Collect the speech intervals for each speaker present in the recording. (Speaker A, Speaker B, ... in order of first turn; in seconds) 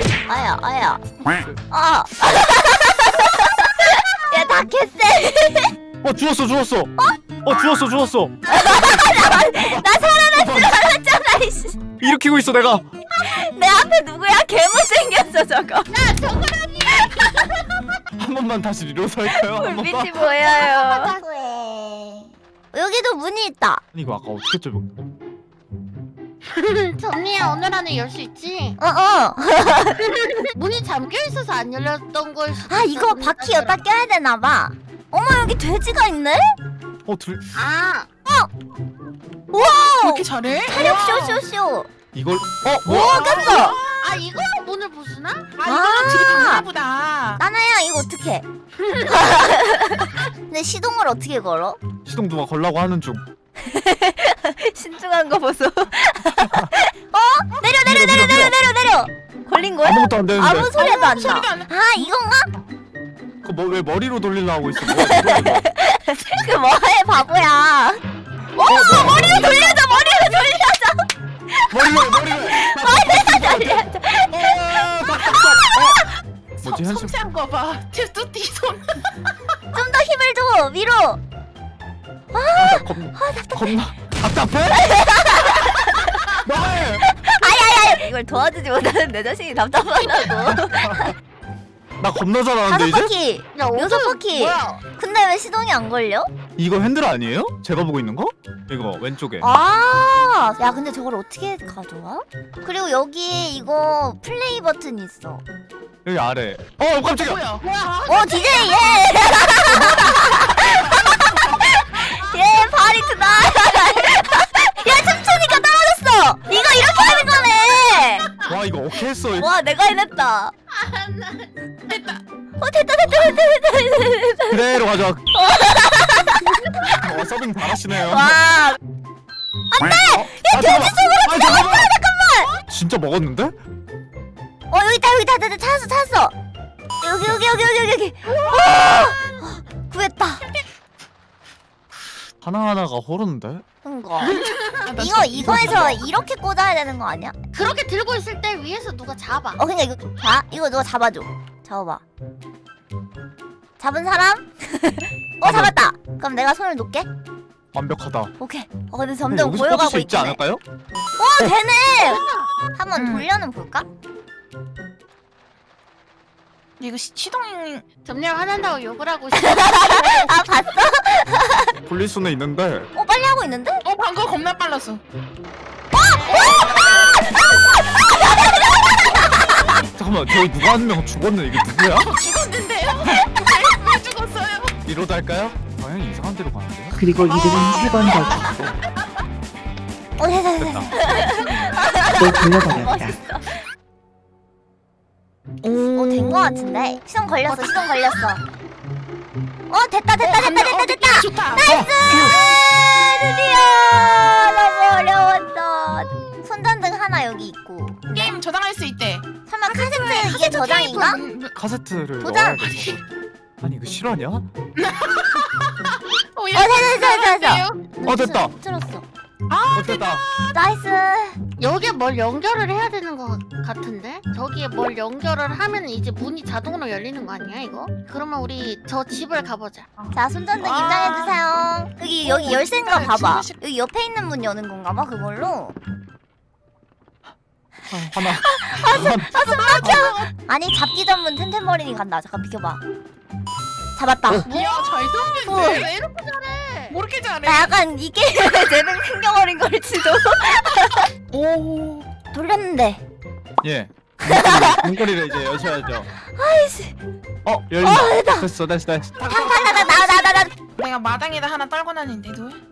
Speaker A: 0.3-1.0, 1.7-5.7, 8.5-12.0, 13.2-16.0, 19.4-22.1, 22.7-23.8, 28.8-30.5, 32.7-36.6, 39.5-41.9, 42.8-43.8, 45.6-46.7, 47.4-48.5, 49.0-51.8, 53.6-62.5, 64.8-68.0, 68.6-76.1, 79.7-81.2, 82.3-83.8, 84.7-86.4, 87.0-91.1, 92.7-96.3, 99.4-105.4, 108.1-118.3, 119.4-120.5, 122.6-124.6, 125.3-127.2, 128.1-128.8, 129.7-132.6, 134.7-136.3, 137.0-140.5, 143.8-144.4, 144.9-147.3, 149.6-152.0, 153.8-157.1, 158.4-160.4, 161.2-162.2, 162.7-163.9, 169.4-171.8, 172.9-173.8, 175.9-179.8, 190.2-193.7, 195.7-198.4, 199.7-208.3, 209.5-211.2, 212.2-213.0, 216.5-219.1, 220.5-221.4, 230.1-235.8, 238.4-242.8, 244.0-244.5, 245.5-245.8, 247.4-251.1, 252.3-253.0, 254.2-254.9, 256.2-257.0, 257.8-258.5, 259.2-260.5
Speaker B: 1.3-1.6, 6.0-6.9, 7.4-10.9, 12.0-12.9, 18.2-20.2, 23.9-24.9, 37.0-37.4, 42.1-43.2, 52.0-53.2, 56.4-56.7, 57.8-58.6, 59.8-60.8, 63.4-65.6, 68.7-69.6, 71.7-76.0, 76.6-77.2, 82.6-84.8, 86.4-87.1, 90.7-91.0, 92.0-93.1, 96.6-99.5, 106.0-107.4, 109.7-110.3, 118.5-119.5, 124.5-125.3, 126.9-128.4, 130.1-131.9, 132.7-133.6, 142.4-143.6, 155.4-155.8, 157.7-158.3, 159.3-160.6, 171.8-172.9, 179.9-182.2, 184.8-187.0, 190.6-191.6, 211.6-213.1, 213.6-214.5, 218.1-218.5, 219.7-220.2, 237.9-240.1, 253.6-256.1, 257.4-260.0
Speaker C: 15.9-17.7, 20.2-21.9, 26.4-28.8, 30.2-33.8, 37.5-38.1, 43.2-45.5, 93.5-94.8, 116.7-117.6, 120.7-122.2, 144.3-144.8, 147.5-149.6, 168.1-170.3, 221.6-229.9, 244.6-247.0
Speaker D: 40.0-41.4, 42.9-44.2, 45.6-47.4, 60.6-61.7, 68.9-70.1, 76.6-79.1, 107.2-108.7, 138.3-138.8, 144.8-146.1, 162.9-163.3, 166.8-167.8, 173.8-175.0, 182.0-184.7, 187.3-188.6, 197.5-197.9, 200.2-201.8, 208.1-211.5, 214.8-217.8, 219.5-220.5, 230.0-231.4, 232.2-233.6, 239.4-240.3, 244.5-246.0, 246.9-247.8, 251.3-252.1, 260.8-262.6
Speaker E: 186.9-188.8, 192.2-193.2